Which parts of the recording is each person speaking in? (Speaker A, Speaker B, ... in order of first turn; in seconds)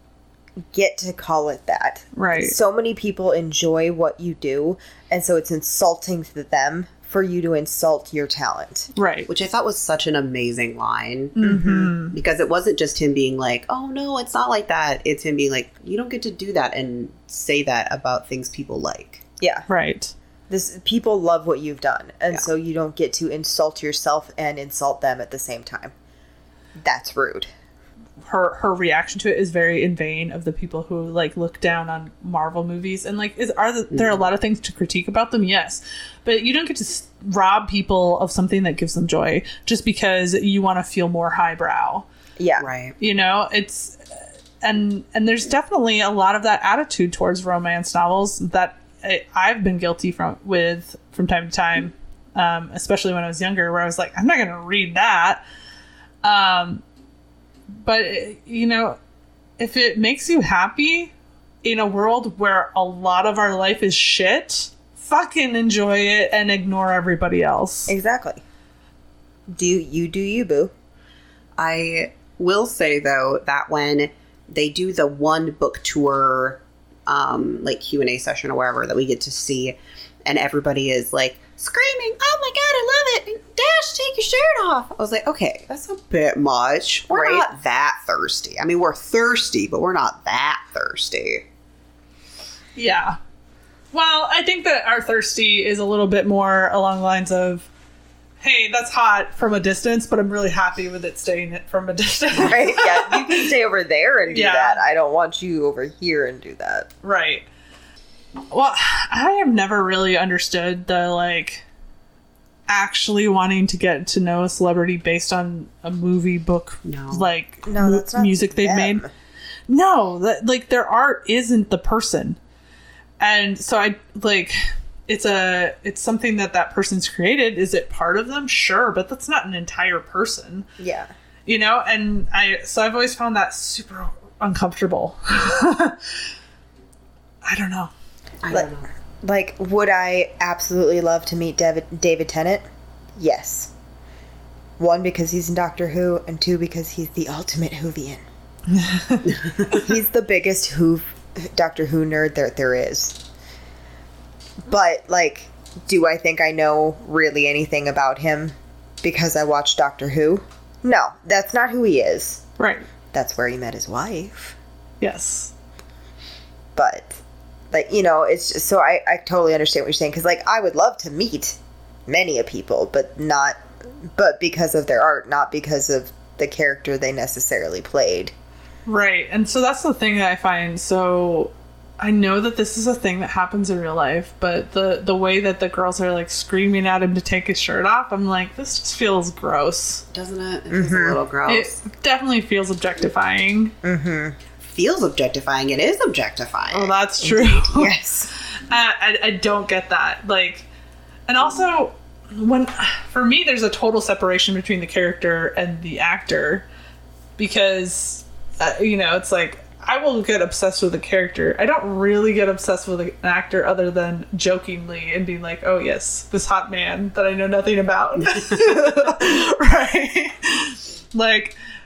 Speaker A: 0.7-8.9, 11.4-11.9, 19.4-19.7, 20.5-25.9, 26.8-27.5, 42.4-42.7, 67.9-68.4, 69.5-70.7, 87.2-87.4, 102.3-106.9, 117.6-119.1, 130.8-131.1, 138.5-142.6, 143.2-143.7, 144.8-148.2, 149.6-153.2, 154.6-162.4, 163.1-164.6, 166.7-167.2, 167.7-178.3, 190.7-191.2, 193.8-194.4, 197.3-198.3
Speaker B: 2.1-2.5, 8.9-9.3, 11.3-12.2, 19.7-20.1, 28.2-42.0, 43.0-44.0, 44.6-55.4, 56.2-56.8, 57.7-59.0, 59.6-61.1, 61.6-67.9, 87.1-87.5, 92.8-93.2, 93.9-97.7, 98.4-103.5, 104.3-104.8, 107.0-107.5, 108.5-111.6, 112.7-119.0, 119.7-122.4, 123.2-130.7, 131.4-136.2, 137.4-137.9, 148.7-149.3, 162.6-162.8, 165.0-165.5, 178.8-190.0, 191.5-193.7, 196.7-197.9, 198.6-200.7, 201.3-206.7, 207.4-221.5
Speaker C: 9.3-19.2, 33.9-34.2, 42.6-43.0, 71.6-91.4, 116.8-117.3, 138.4-138.9, 190.1-191.8, 194.6-197.0